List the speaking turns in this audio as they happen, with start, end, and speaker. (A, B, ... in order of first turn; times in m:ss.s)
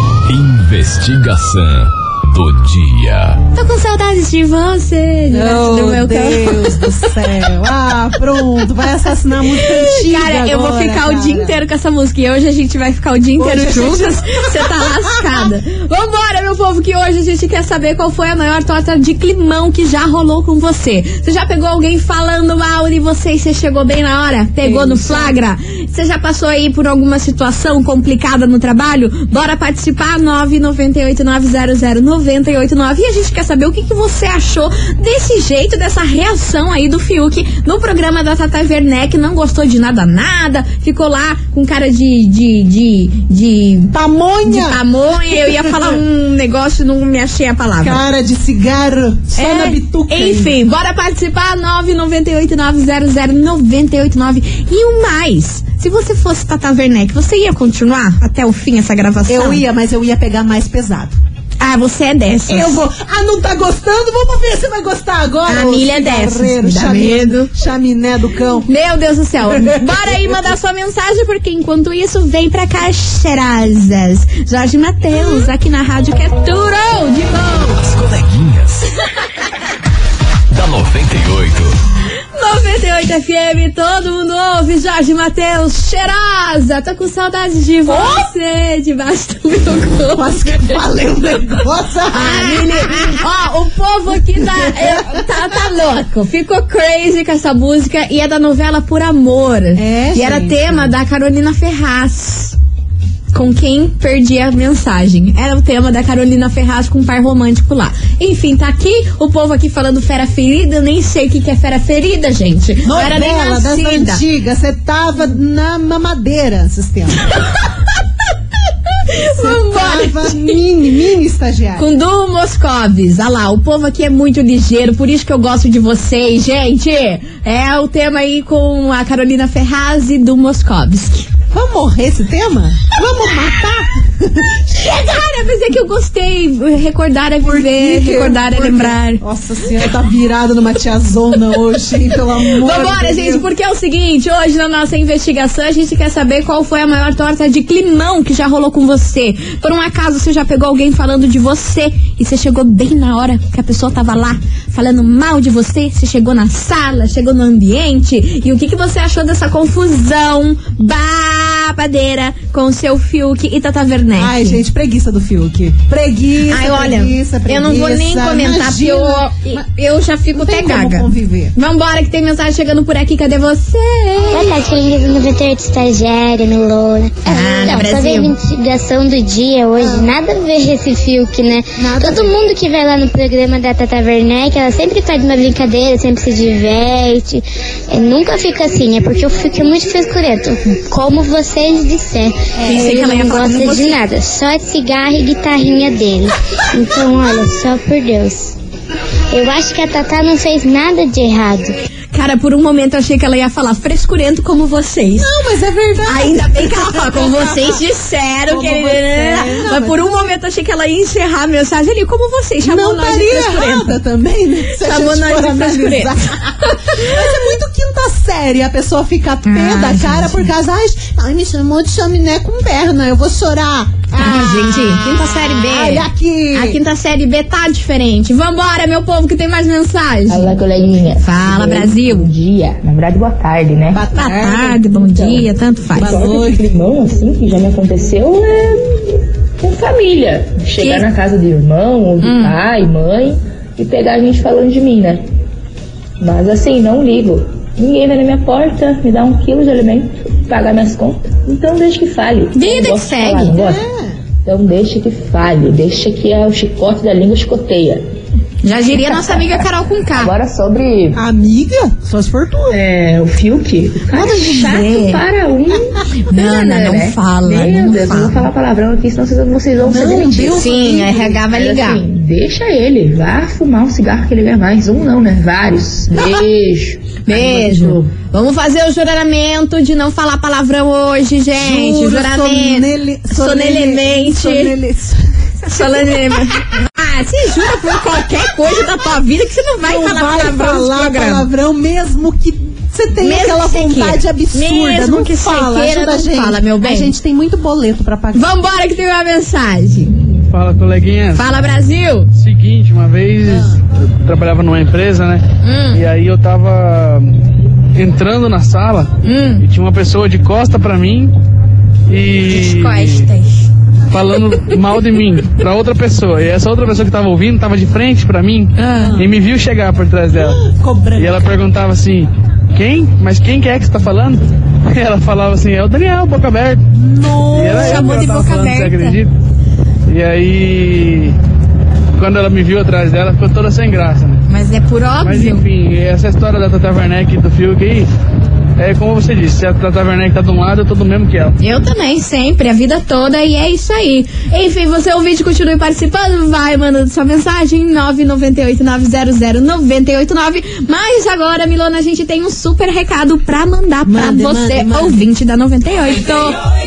0:00.3-0:03.4 A
0:03.5-0:06.9 B
0:05.3-0:11.6 C
0:09.6-0:43.9 B
0:13.4-0:15.4 C
0:24.6-0:25.4 C
0:43.9-0:45.9 C
0:44.4-0:48.0 B
0:47.8-0:50.6 C
0:49.4-0:59.6 B
0:59.3-1:01.2 C
1:01.6-1:02.8 B
1:02.5-1:08.7 C
1:05.5-1:07.5 B
1:08.7-1:17.8 B
1:17.8-1:18.9 A
1:20.5-1:21.8 A
1:22.4-1:30.8 B
1:27.9-1:28.3 C
1:30.1-1:33.2 C
1:32.1-1:42.6 B
1:34.3-1:35.2 C
1:39.8-1:40.9 C
1:43.3-1:54.2 B
1:52.8-1:57.3 C
1:59.1-2:00.6 B
1:59.4-2:01.9 C
2:01.8-2:11.3 B
2:11.5-2:14.6 C
2:14.7-2:19.2 B
2:17.4-2:23.5 C
2:22.4-2:44.6 B
2:44.2-2:49.7 C
2:46.5-2:54.4 B
2:50.3-2:51.6 C
2:54.3-3:18.6 D
2:57.3-2:58.3 B
2:57.3-2:57.8 C
2:59.8-3:00.1 C
3:01.8-3:02.4 C
3:12.6-3:14.0 B
3:19.3-3:21.8 D
3:22.1-3:25.3 B
3:25.2-3:27.8 C
3:26.1-3:34.0 B
3:28.5-3:30.3 C
3:32.6-3:46.8 C
3:34.7-3:37.2 B
3:39.4-3:40.5 B
3:44.2-3:50.6 B
3:50.3-3:54.1 E
3:51.2-3:52.3 B
3:53.9-3:54.8 C
3:54.1-3:56.2 B
3:54.8-4:05.2 E
3:56.0-3:56.6 C
4:00.8-4:01.1 B
4:02.2-4:02.6 B
4:06.2-4:13.8 E
4:12.5-4:13.6 B
4:13.5-4:14.2 C
4:14.4-4:18.0 E
4:18.6-4:20.3 B
4:18.9-4:19.6 E
4:20.2-4:21.2 E
4:21.2-4:22.8 C
4:22.7-4:38.1 E
4:24.1-4:25.2 B
4:26.3-4:28.5 B
4:29.8-4:31.4 C
4:30.5-4:32.0 B
4:37.2-4:44.7 B
4:41.6-4:46.4 C
4:45.7-4:51.5 B
4:49.8-4:58.5 C
4:53.2-4:57.1 B
4:58.3-5:00.2 B
5:00.5-5:01.5 F
5:01.4-5:02.3 B
5:02.4-5:07.4 F
5:03.5-5:03.8 C
5:05.6-5:06.0 B
5:08.0-5:11.3 F
5:09.2-5:09.6 B
5:12.1-5:13.3 F
5:12.5-5:13.7 B
5:14.1-5:20.6 F
5:18.8-5:19.2 B
5:19.0-5:19.3 C
5:20.3-5:21.6 C
5:21.2-5:26.8 F
5:26.9-5:28.1 C
5:27.5-5:29.3 F
5:27.7-5:29.2 B
5:30.1-5:31.4 F
5:32.2-5:34.4 F
5:34.5-5:35.7 B
5:35.2-5:38.1 F
5:38.8-5:41.6 F
5:41.6-5:56.6 B
5:54.1-5:55.2 C